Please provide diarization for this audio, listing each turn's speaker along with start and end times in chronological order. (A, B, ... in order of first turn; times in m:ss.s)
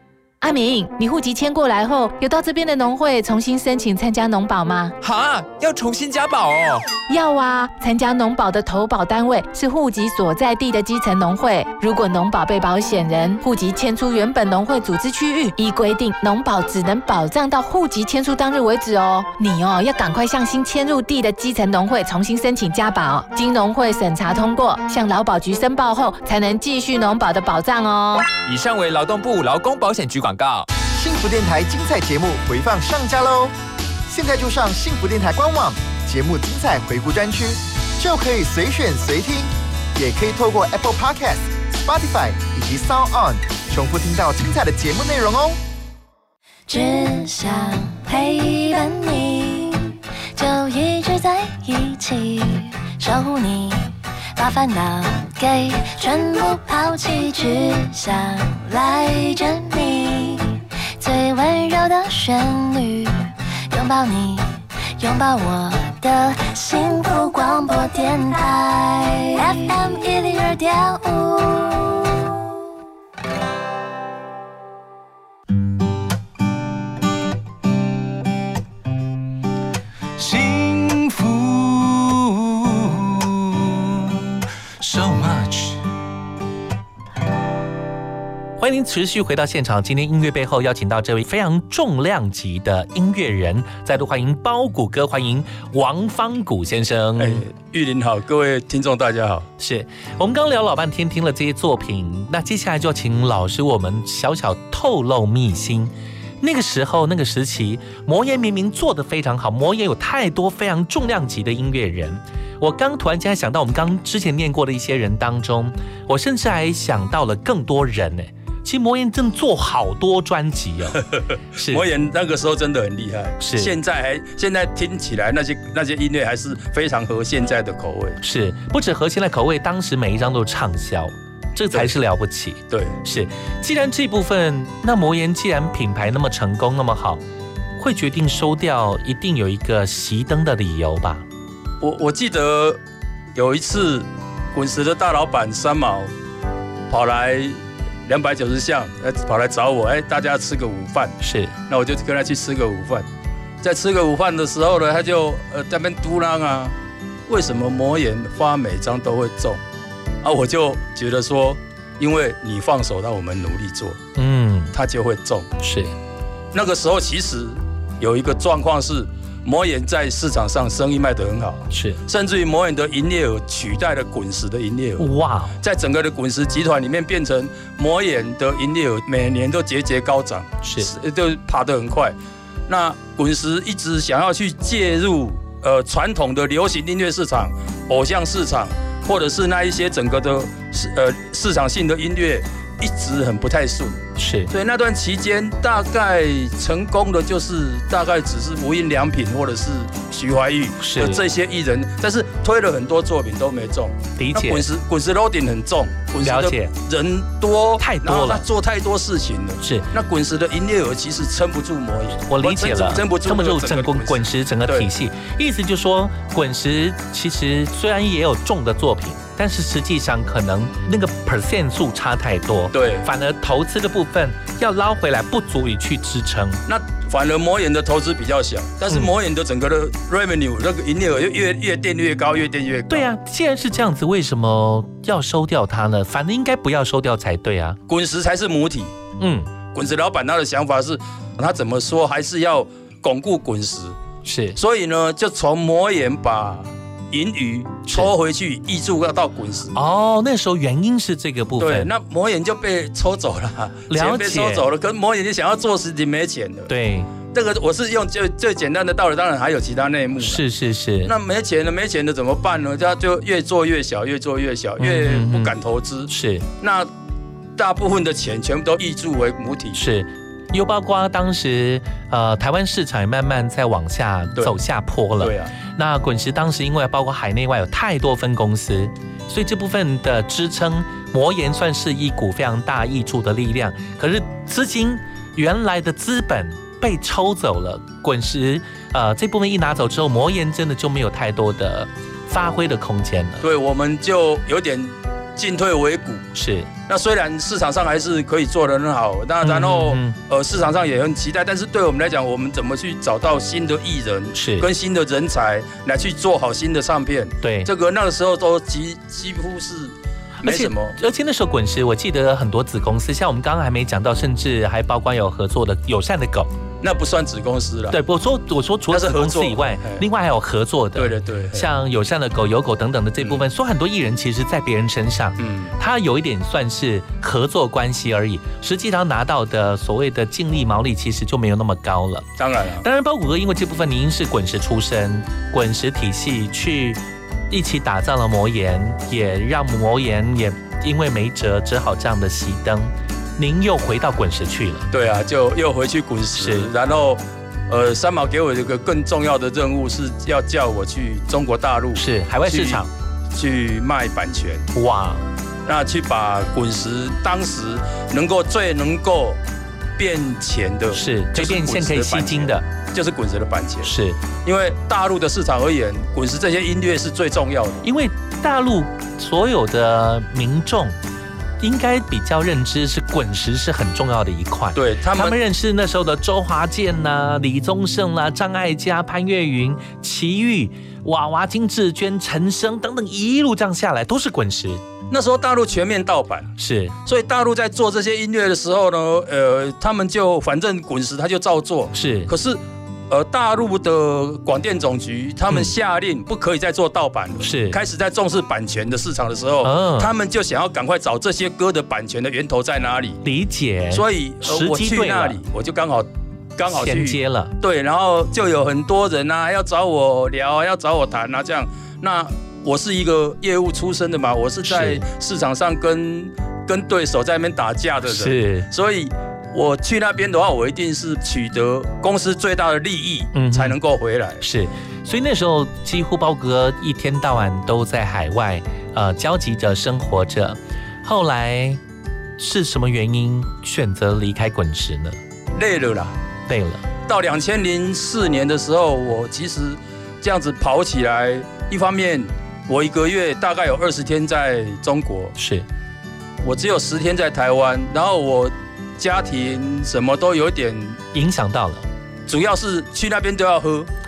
0:00.4-0:04.9 A
0:05.0-0:06.9 B
0:07.1-0:28.3 A
0:28.4-0:30.7 B
0:30.9-0:33.5 C
0:34.1-0:45.6 C
0:46.7-1:12.2 D
1:28.6-1:37.4 E
1:37.2-1:39.5 F
1:39.6-2:01.0 E
2:01.6-2:01.8 E
2:01.7-2:08.2 F
2:03.4-2:03.7 E
2:08.2-2:17.2 E
2:12.7-2:13.0 F
2:17.8-2:21.2 E
2:21.8-2:22.8 F
2:23.4-2:26.1 F
2:26.9-2:31.2 F
2:31.2-2:31.5 E
2:31.7-2:33.1 F
2:33.6-2:36.7 F
2:37.3-2:39.6 F
2:40.2-2:44.0 F
2:44.2-2:44.7 E
2:44.7-2:45.5 F
2:45.6-2:45.9 E
2:46.5-2:55.1 F
2:51.7-2:52.0 E
2:55.0-2:55.5 E
2:55.6-3:02.1 F
3:00.6-3:00.9 E
3:02.7-3:14.0 F
3:14.2-3:14.5 E
3:14.5-3:34.9 F
3:20.8-3:21.2 E
3:24.2-3:24.6 E
3:26.2-3:26.7 E
3:27.8-3:28.4 E
3:29.6-3:29.9 E
3:32.3-3:46.6 E
3:42.7-3:43.1 F
3:46.7-3:53.1 F
3:52.9-3:57.8 E
3:57.9-3:58.9 F
3:59.2-3:59.5 E
3:59.7-4:04.0 F
4:04.2-4:04.6 E
4:04.6-4:09.8 F
4:09.7-4:11.9 E
4:11.6-4:16.7 F
4:13.9-4:14.6 E
4:16.7-4:17.1 E
4:17.3-4:20.4 F
4:20.2-4:21.1 E
4:21.1-4:26.1 F
4:24.8-4:25.5 E
4:26.1-4:26.5 E
4:26.6-4:26.9 F
4:27.6-4:29.8 F
4:29.8-4:53.4 E
4:35.2-4:35.5 F
4:53.4-4:56.3 F
4:56.4-4:56.7 E
4:56.9-5:11.0 F
4:59.4-5:00.2 E
5:04.4-5:04.7 E
5:07.4-5:07.7 E
5:10.4-5:16.5 E
5:16.8-5:18.0 F
5:17.9-5:32.2 E
5:18.9-5:20.0 F
5:21.0-5:21.7 F
5:25.4-5:25.7 F
5:32.4-5:32.8 F
5:32.8-5:44.8 E
5:44.9-5:52.8 F
5:46.4-5:46.7 E
5:52.0-5:52.9 E
5:53.3-5:54.7 F
5:54.8-5:55.2 E
5:55.7-5:59.4 F
6:00.0-6:03.9 F
6:00.9-6:02.6 E
6:03.8-6:04.2 E
6:04.4-6:07.8 F
6:07.8-6:11.0 E
6:11.6-6:24.8 E
6:14.8-6:15.4 F
6:25.1-6:26.5 F
6:26.6-6:26.9 E
6:27.0-6:43.2 F
6:31.9-6:32.3 E
6:37.4-6:37.8 E
6:39.6-6:40.1 E
6:43.2-6:45.4 E
6:43.9-7:04.4 F
6:46.7-6:47.5 E
6:54.7-6:55.0 E
6:58.1-6:58.7 E
7:03.4-7:03.8 E
7:04.4-7:11.8 E
7:12.4-7:15.2 E
7:15.6-7:16.2 F
7:16.5-7:16.8 E
7:17.1-7:25.4 F
7:25.4-7:25.6 E
7:26.4-7:31.0 F
7:31.1-7:31.8 E
7:32.3-7:33.9 F